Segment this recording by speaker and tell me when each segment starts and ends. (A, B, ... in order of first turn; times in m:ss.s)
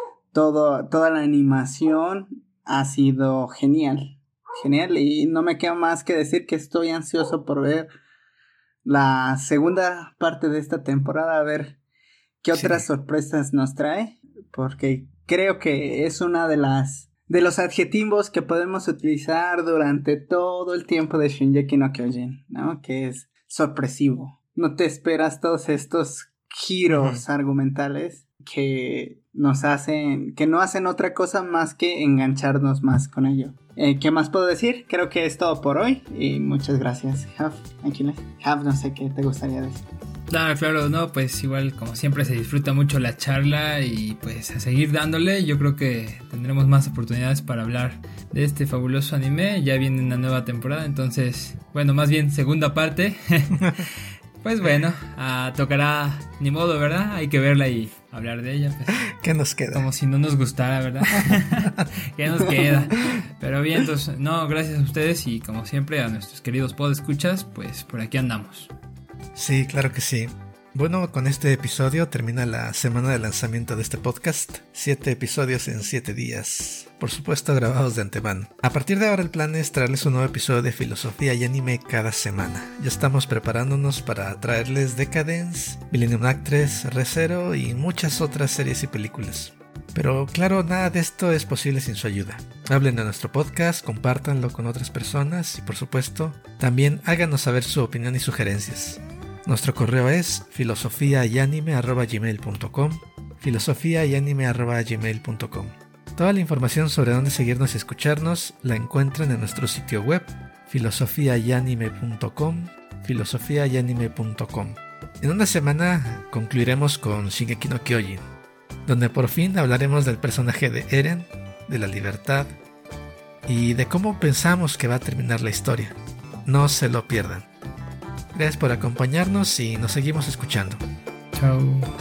0:00.3-0:07.9 A
0:08.8-0:11.8 A
0:12.4-0:39.8 A
0:12.5-0:12.9 B
0:27.0-0:27.2 B
0:40.3-0:53.9 C
0:54.4-0:59.1 C
0:59.1-0:59.9 B
0:59.7-1:08.7 C
1:01.2-1:01.8 B
1:09.4-1:58.2 B
1:58.9-2:02.5 B
2:03.5-2:07.5 B
2:08.3-2:10.8 B
2:11.4-2:11.9 C